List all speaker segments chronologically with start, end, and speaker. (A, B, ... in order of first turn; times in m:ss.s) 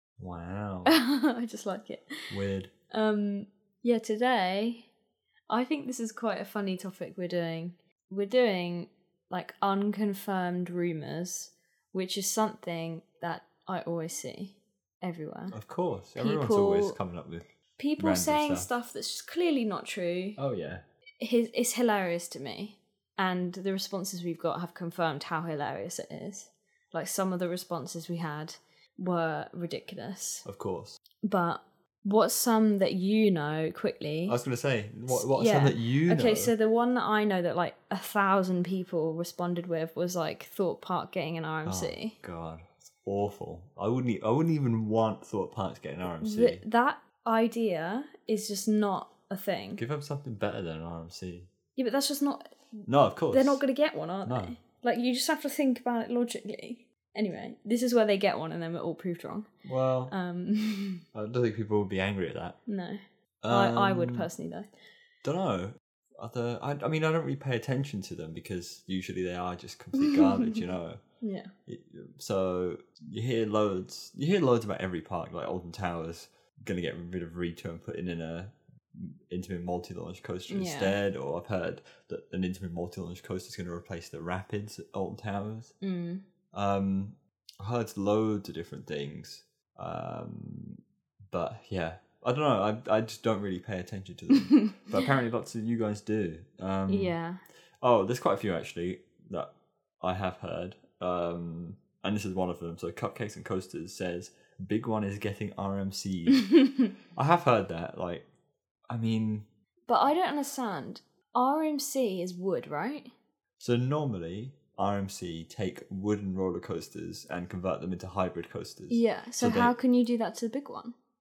0:00.2-0:01.0 A
0:00.9-0:02.3 B
0:02.3-0:02.7 A
0:02.9-0:04.9 B
0:05.5-0:15.6 B
0:15.5-0:17.5 A
0:16.2-0:17.0 B
0:17.8-0:20.4 B
0:18.0-0:18.7 A
0:20.4-0:20.8 A
0:21.2-0:30.4 B
0:30.4-0:31.0 A
0:31.2-0:34.4 B
0:34.3-0:36.5 A
0:35.1-0:42.2 B
0:41.6-0:46.6 A
0:46.2-0:49.8 B
0:49.8-0:51.5 A
0:51.8-0:59.5 B
0:52.9-0:53.6 A
0:54.2-0:54.6 A
0:59.6-1:00.1 A
1:00.1-1:01.0 B
1:01.1-1:02.6 A
1:02.7-1:04.7 B
1:03.4-1:04.3 A
1:05.2-1:11.0 A
1:10.0-1:10.6 B
1:11.2-1:11.5 B
1:11.7-1:25.7 A
1:20.5-1:21.0 B
1:25.8-1:26.2 B
1:26.5-1:37.2 A
1:36.9-1:37.4 B
1:37.8-1:39.5 A
1:40.0-1:46.5 A
1:47.2-1:48.3 A
1:48.9-1:49.5 A
1:49.9-1:53.1 B
1:53.6-1:59.8 A
1:58.9-2:01.0 B